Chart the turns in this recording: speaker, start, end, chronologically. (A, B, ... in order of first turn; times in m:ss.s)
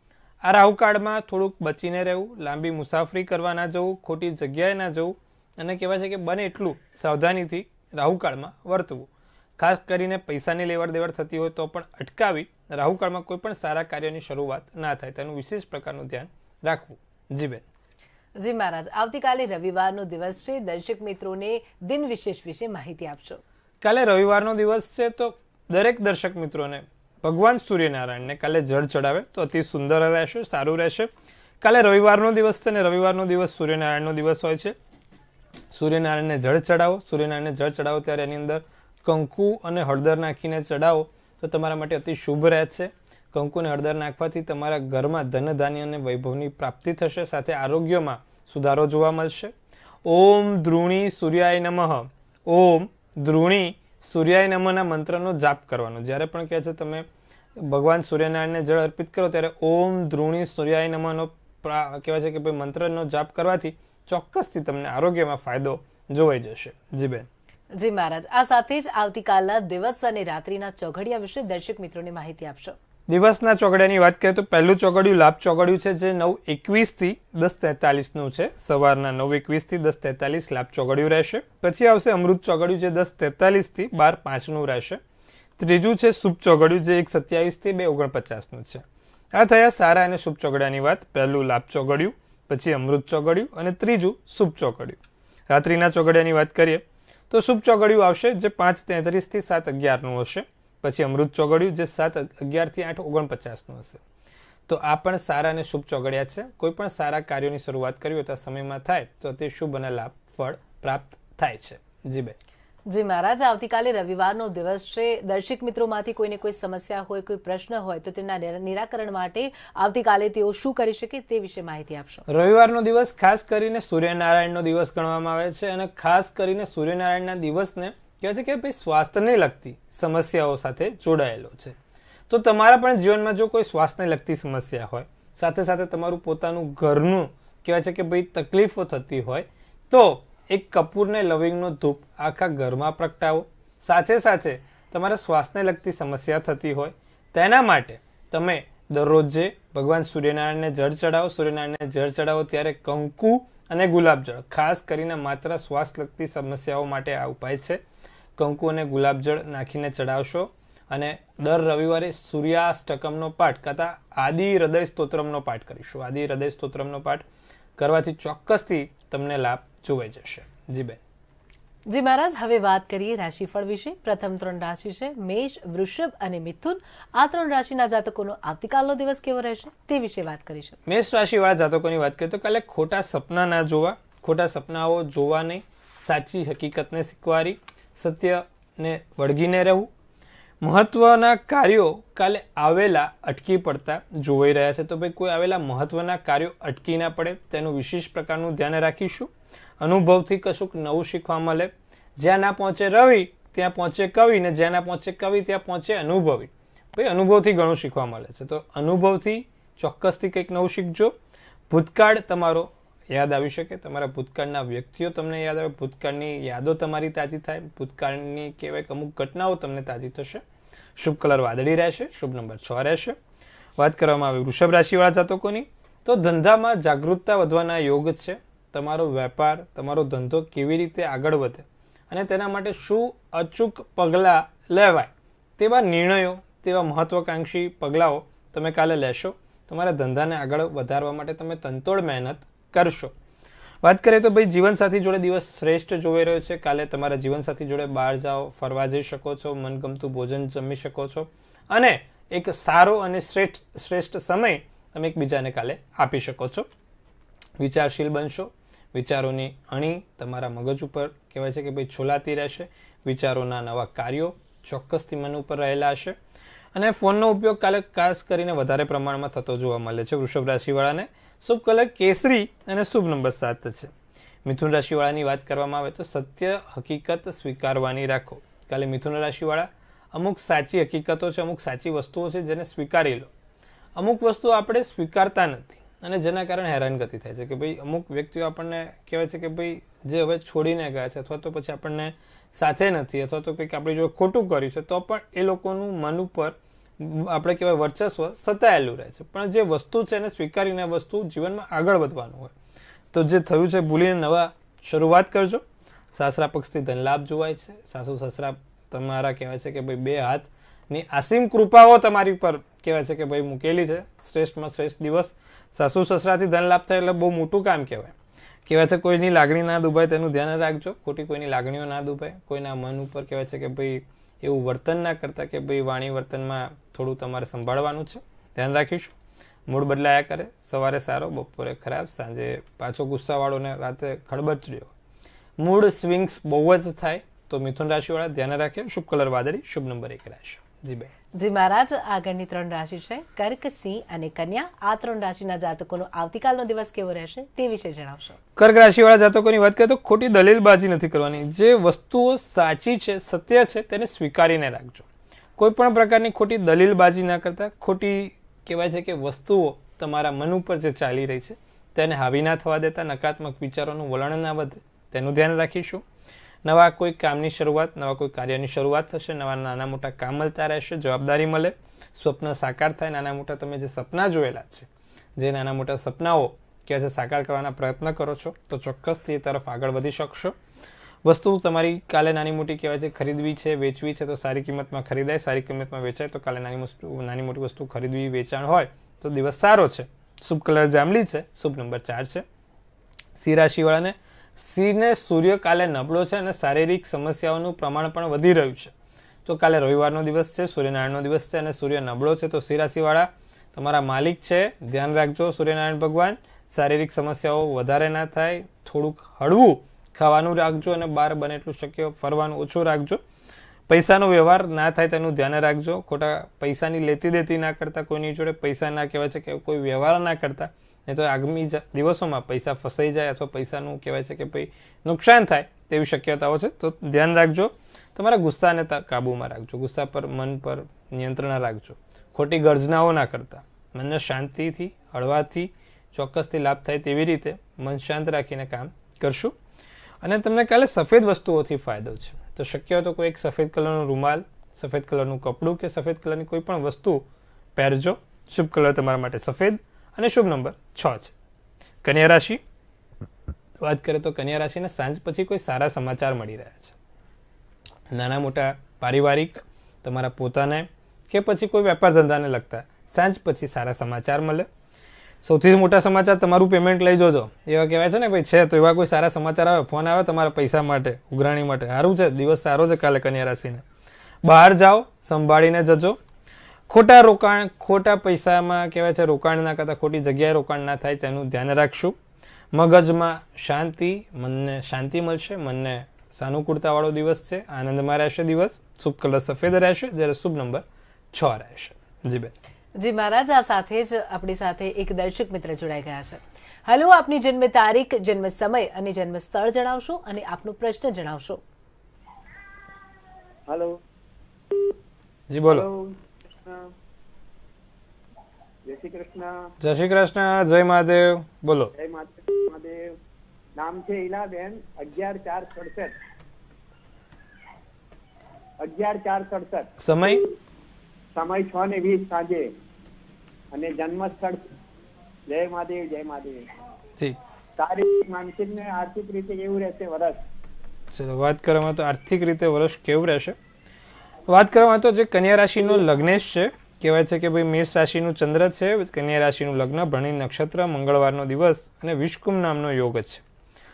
0:00.4-0:17.6 A
0:18.4-0:23.4 B
0:23.8-0:34.8 A
0:35.7-0:49.5 A
0:50.0-1:07.3 A
1:07.7-1:12.8 B
1:13.1-1:25.0 A
1:25.6-1:44.0 A
1:44.7-1:52.4 A
1:52.9-2:02.2 B
2:02.3-2:11.8 A
2:12.3-2:37.8 A
2:38.4-2:47.2 A
2:47.8-2:51.0 A
2:51.9-3:00.8 B
3:00.9-3:09.9 A
3:10.6-3:31.1 A
3:31.7-3:40.4 A
3:41.0-3:43.2 A
3:43.8-4:03.1 A
4:03.8-4:16.7 A
4:17.6-4:26.2 A
4:26.7-4:33.9 A
4:34.4-4:43.3 A
4:44.0-5:02.5 A
5:03.1-5:18.1 A
5:18.6-5:29.1 A
5:29.7-5:34.9 A
5:35.6-5:41.1 A
5:41.4-5:48.4 B
5:48.6-6:06.0 A
6:06.6-6:20.6 A
6:21.2-6:32.4 A
6:33.4-6:38.9 A
6:39.4-6:53.2 A
6:53.9-7:19.5 A
7:20.2-7:27.2 A
7:27.8-7:31.3 A
7:32.0-7:32.6 A
7:33.8-7:37.0 A
7:38.1-7:44.7 A
7:45.4-7:53.8 A
7:54.4-7:56.2 A
7:56.9-8:02.2 A
8:02.7-8:12.5 A
8:13.0-8:21.6 B
8:23.7-8:24.0 C
8:25.5-8:25.9 A
8:25.7-8:26.8 C
8:28.9-8:29.5 C
8:29.8-8:31.9 A
8:31.9-8:33.0 C
8:33.8-8:36.1 C
8:38.8-8:39.9 C
8:40.0-8:40.4 A
8:41.3-8:42.7 C
8:43.7-8:44.7 C
8:45.5-8:46.6 C
8:47.8-8:50.4 C
8:51.1-8:53.6 A
8:54.5-9:03.4 A